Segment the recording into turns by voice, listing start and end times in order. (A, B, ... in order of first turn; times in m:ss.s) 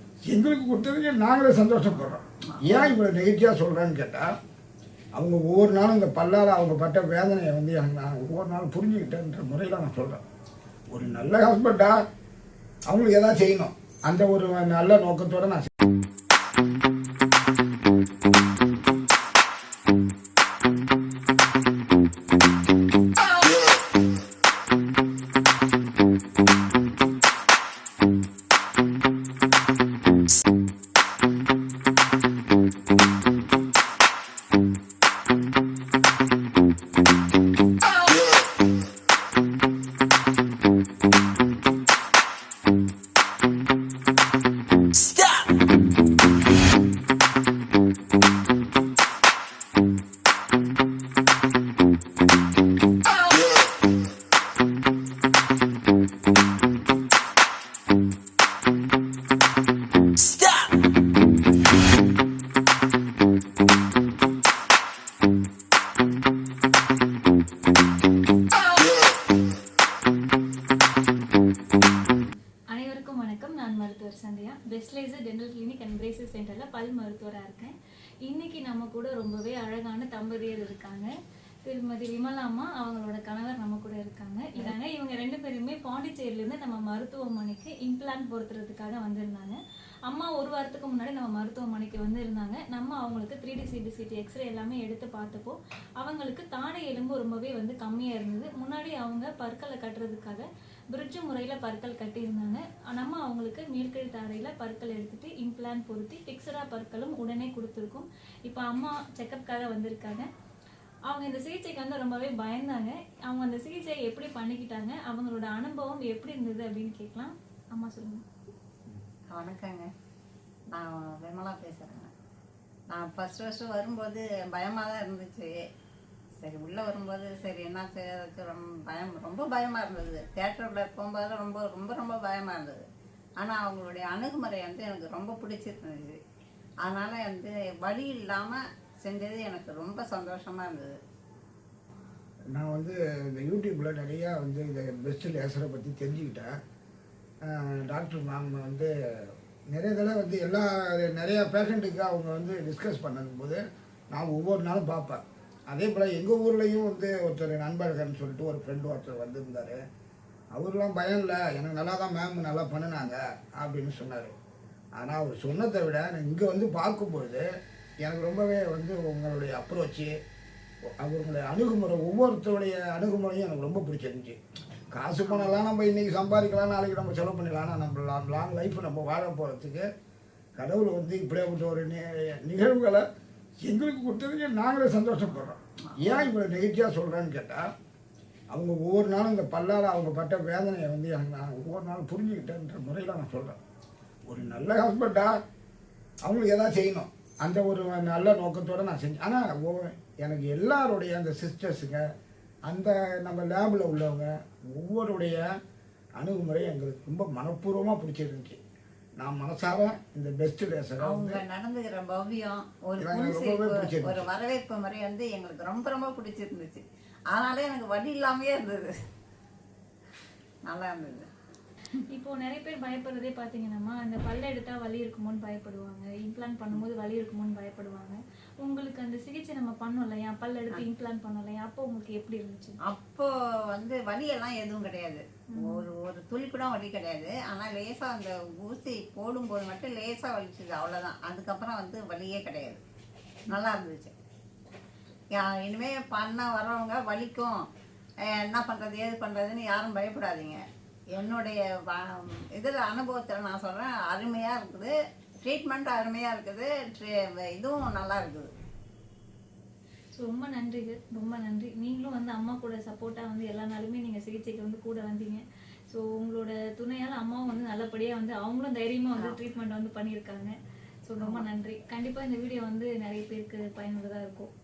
0:00.2-0:04.4 A
0:02.5-0:02.9 B
0:05.2-0:10.2 A
0:10.9-0:12.0 A
0:12.9-0:15.7 A
1:12.7-1:21.1 C
1:21.7-1:50.3 C
1:51.1-1:58.2 C
1:59.3-1:59.9 B
2:00.7-2:02.1 B
2:02.9-2:05.5 B
2:06.4-2:12.8 B
2:13.4-2:16.2 B
2:16.8-2:20.9 B
2:22.5-2:26.5 A
2:27.4-2:33.6 A
2:34.1-2:39.8 A
2:40.6-2:44.4 A
2:45.0-2:47.5 A
2:48.0-2:50.1 A
2:51.0-2:54.4 A
2:54.9-2:59.9 A
2:55.3-2:55.6 B
3:00.6-3:03.0 A
3:03.6-3:07.7 A
3:05.8-3:06.3 B
3:08.5-3:13.6 A
3:14.3-3:15.4 A
3:16.2-3:22.0 A
3:22.7-3:25.5 A
3:26.2-3:28.6 A
3:29.2-3:31.4 A
3:31.0-3:38.9 B
3:33.0-3:34.3 A
3:40.7-3:41.3 B
3:42.1-3:52.8 C
3:52.9-4:02.8 B
3:55.5-3:55.8 C
4:03.5-4:04.1 B
4:05.3-4:07.6 B
4:08.3-4:10.6 B
4:11.2-4:14.9 B
4:15.4-4:18.5 B
4:20.2-4:30.5 C
4:31.1-4:34.5 C
4:31.2-4:31.5 B